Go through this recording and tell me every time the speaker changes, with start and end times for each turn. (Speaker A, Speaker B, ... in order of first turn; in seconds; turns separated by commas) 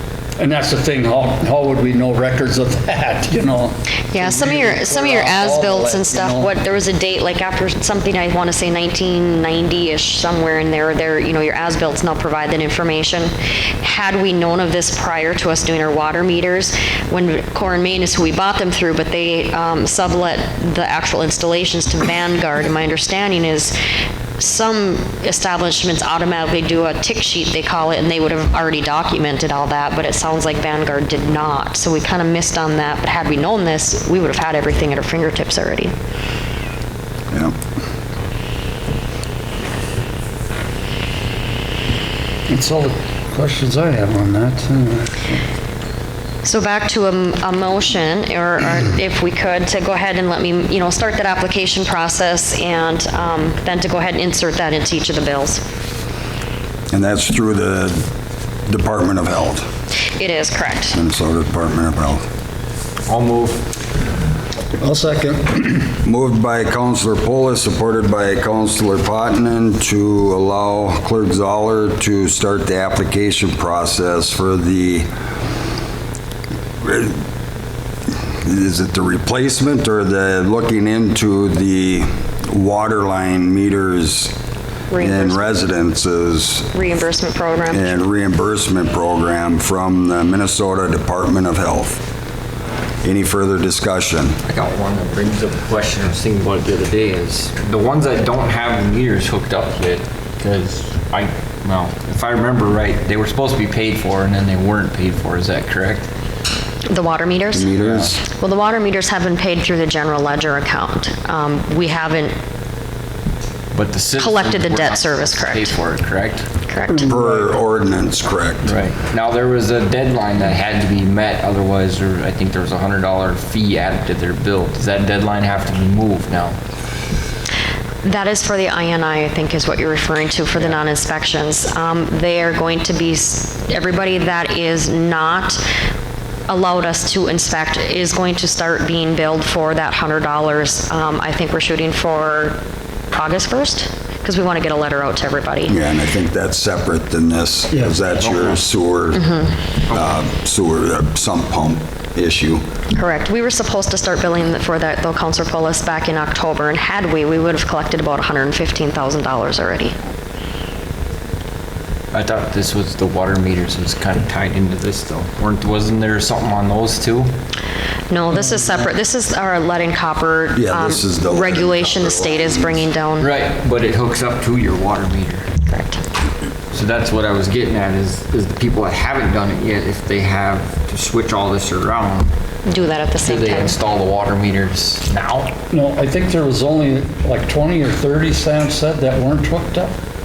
Speaker A: 0.4-6.5, Speaker B: 4.1-23.7, Speaker B: 24.4-35.9, Speaker C: 37.3-37.6, Speaker A: 42.5-45.4, Speaker B: 46.4-55.6, Speaker C: 56.9-58.0, Speaker C: 58.7-59.6, Speaker B: 60.2-61.0, Speaker C: 60.9-62.2, Speaker D: 63.1-63.7, Speaker A: 64.8-65.8, Speaker C: 66.0-75.1, Speaker C: 76.8-77.2, Speaker C: 78.4-84.4, Speaker B: 84.9-85.5, Speaker C: 85.0-86.7, Speaker B: 86.7-87.9, Speaker C: 87.7-92.0, Speaker C: 93.0-94.4, Speaker D: 94.5-106.1, Speaker B: 106.9-112.3, Speaker C: 107.5-108.2, Speaker A: 107.8-108.1, Speaker D: 113.7-116.5, Speaker B: 114.2-115.7, Speaker B: 116.7-117.1, Speaker A: 116.9-117.5, Speaker C: 117.1-118.7, Speaker D: 118.6-126.6, Speaker B: 128.0-135.6, Speaker B: 136.5-142.6, Speaker B: 143.1-145.8, Speaker C: 145.7-149.3, Speaker A: 147.7-148.0, Speaker D: 148.2-148.6, Speaker B: 149.1-149.6, Speaker C: 149.9-152.6, Speaker B: 152.9-159.9, Speaker D: 162.1-167.3, Speaker B: 168.1-173.3, Speaker C: 170.6-172.8, Speaker D: 173.2-175.5, Speaker B: 175.7-176.0, Speaker D: 176.7-182.3, Speaker B: 182.7-183.8, Speaker D: 183.2-185.6, Speaker A: 185.7-189.9